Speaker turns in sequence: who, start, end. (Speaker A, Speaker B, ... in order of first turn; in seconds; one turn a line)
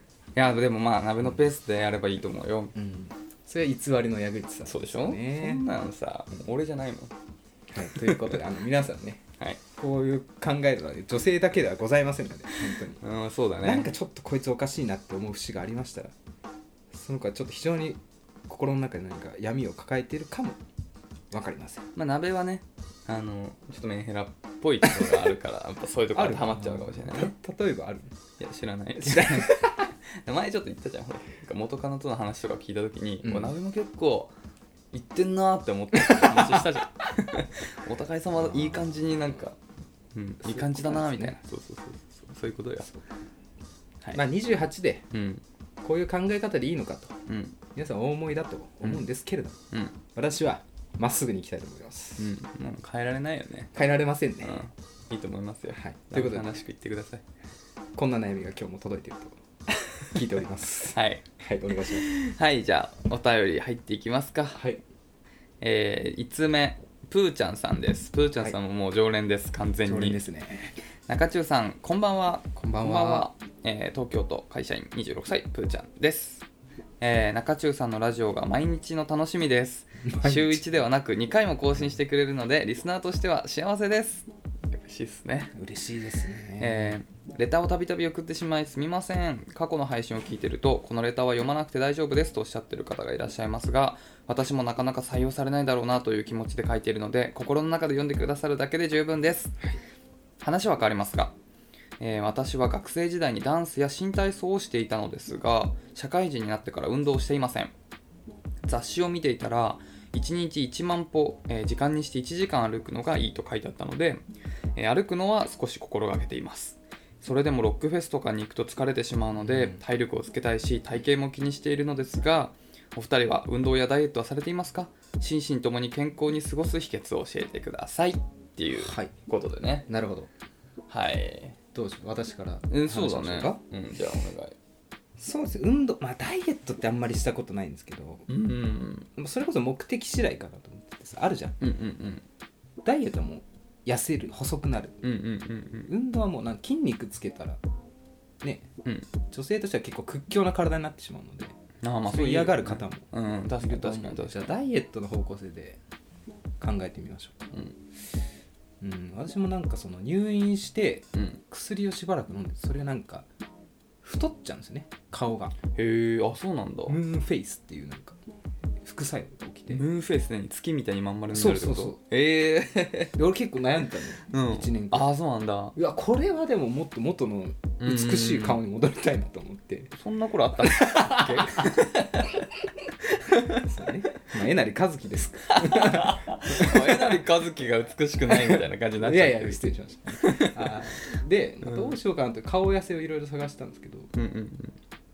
Speaker A: 0.3-2.7
Speaker B: 2.7-5.7
Speaker A: 4.7-7.1
Speaker B: 7.7-13.0
Speaker A: 7.8-8.4
Speaker A: 12.7-13.9
Speaker B: 13.6-16.1
Speaker B: 16.9-20.6
Speaker B: 21.3-21.9
Speaker A: 21.9-27.3
Speaker B: 26.1-28.1
Speaker A: 28.4-34.3
Speaker B: 29.0-29.9
Speaker B: 33.2-33.5
Speaker A: 34.9-39.6
Speaker B: 36.0-37.1
Speaker B: 38.4-39.4
Speaker A: 40.1-42.9
Speaker B: 40.4-41.4
Speaker B: 44.1-45.1
Speaker A: 45.1-45.4
Speaker B: 45.8-47.2
Speaker A: 47.3-47.6
Speaker B: 47.7-49.6
Speaker B: 50.1-52.3
Speaker A: 52.2-53.7
Speaker B: 53.7-54.7
Speaker A: 54.4-57.2
Speaker B: 55.7-56.5
Speaker B: 58.0-62.1
Speaker A: 60.9-61.2
Speaker A: 61.8-64.6
Speaker B: 64.5-64.8
Speaker A: 65.6-70.2
Speaker B: 69.8-70.8
Speaker A: 71.1-76.4
Speaker B: 72.6-73.3
Speaker A: 77.0-85.5
Speaker B: 80.0-80.6
Speaker B: 85.5-87.0
Speaker A: 86.6-99.5
Speaker A: 100.4-101.3
Speaker A: 102.0-107.7
Speaker A: 108.6-114.2
Speaker A: 114.7-129.8
Speaker B: 119.4-119.8
Speaker B: 128.7-129.1
Speaker B: 129.9-130.3
Speaker A: 130.9-131.6
Speaker B: 131.7-133.6
Speaker A: 132.7-134.6
Speaker B: 135.2-138.3
Speaker A: 138.3-139.1
Speaker B: 139.2-141.6
Speaker A: 141.6-142.2
Speaker B: 142.8-145.0
Speaker A: 145.0-145.9
Speaker B: 145.8-147.6
Speaker B: 148.4-148.7
Speaker A: 148.8-149.1
Speaker B: 149.3-151.5
Speaker A: 151.8-154.5
Speaker B: 152.1-153.1
Speaker B: 153.6-155.8
Speaker B: 156.6-157.5
Speaker B: 158.8-163.3
Speaker A: 161.1-161.4
Speaker B: 164.0-165.5
Speaker A: 165.7-167.0
Speaker B: 166.8-168.2
Speaker B: 168.8-169.8
Speaker A: 169.7-173.1
Speaker B: 171.3-172.0
Speaker B: 173.1-175.1
Speaker A: 174.3-175.8
Speaker B: 175.8-179.9
Speaker A: 177.8-178.6
Speaker A: 179.9-182.5
Speaker B: 180.6-181.8
Speaker B: 183.2-187.2
Speaker A: 183.2-183.7
Speaker A: 185.5-191.0
Speaker B: 188.2-194.1
Speaker A: 191.6-191.9
Speaker A: 194.1-194.8